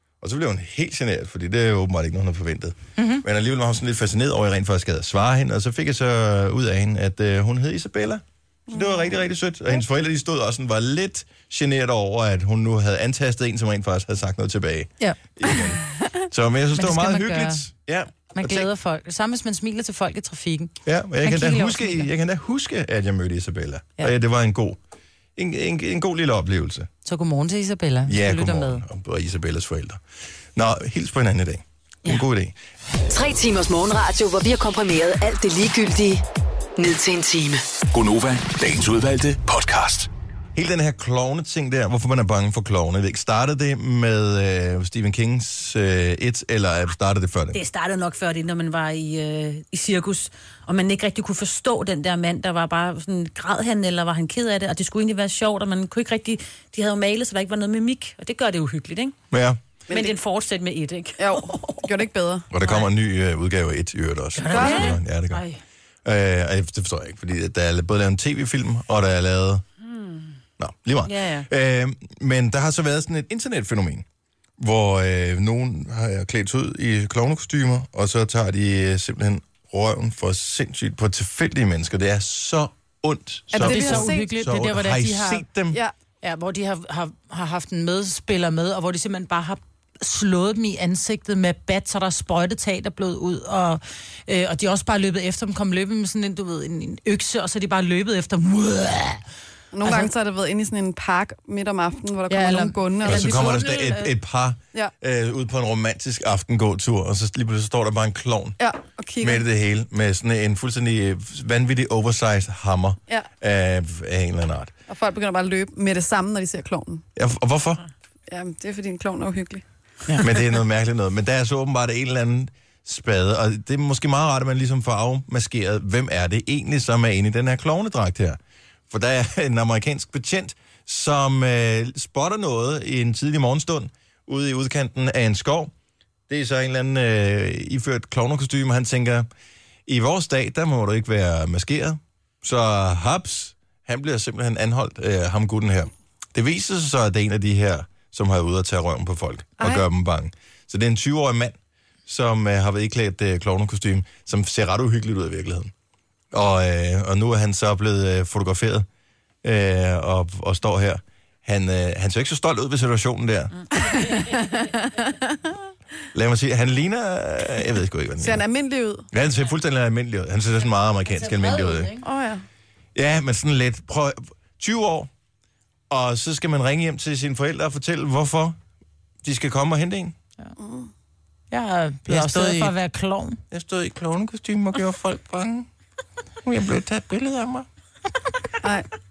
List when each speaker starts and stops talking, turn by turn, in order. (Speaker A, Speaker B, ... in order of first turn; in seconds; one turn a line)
Speaker A: 0.2-18.7
Speaker B: 3.0-3.2
Speaker C: 8.7-9.1
Speaker B: 16.8-17.6
Speaker B: 18.3-22.1
Speaker A: 20.8-24.8
Speaker A: 25.4-26.9
Speaker B: 27.0-28.8
Speaker A: 28.1-30.0
Speaker A: 30.6-32.5
Speaker D: 33.1-36.2
Speaker D: 36.8-37.6
Speaker E: 37.9-40.1
Speaker A: 40.5-47.6
Speaker F: 47.5-59.1
Speaker A: 59.3-59.6
Speaker C: 59.9-60.1
Speaker F: 59.9-61.9
Speaker C: 61.2-62.5
Speaker A: 62.5-65.4
Speaker F: 62.6-62.9
Speaker F: 64.4-65.6
Speaker C: 64.5-65.0
Speaker A: 66.0-69.6
Speaker F: 69.8-70.4
Speaker A: 70.6-74.0
Speaker F: 71.0-71.5
Speaker A: 74.6-85.8
Speaker C: 83.5-84.3
Speaker B: 83.5-85.5
Speaker B: 86.2-99.2
Speaker C: 99.7-103.6
Speaker B: 99.8-100.1
Speaker B: 102.3-104.1
Speaker A: 103.0-108.6
Speaker C: 108.6-109.4
Speaker A: 109.2-114.7
Speaker C: 114.9-117.0
Speaker A: 117.2-117.8
Speaker C: 118.3-119.6
Speaker A: 120.2-128.4
Speaker A: 128.9-135.7
Speaker A: 136.3-139.3
Speaker A: 139.9-155.7
Speaker C: 149.6-149.8
Speaker A: 156.3-158.8
Speaker A: 159.4-163.5
Speaker C: 163.9-165.1
Speaker A: 166.1-168.4
Speaker C: 168.2-169.1
Speaker A: 169.1-171.9
Speaker B: 171.2-172.0
Speaker C: 172.0-172.4
Speaker A: 172.9-175.1
Speaker A: 175.9-178.6
Speaker A: 179.2-180.1
Speaker C: 180.6-180.9
Speaker B: 181.5-183.4
Speaker A: 182.1-182.7
Speaker A: 183.5-185.7
Speaker A: 186.4-187.7
Speaker C: 188.6-188.9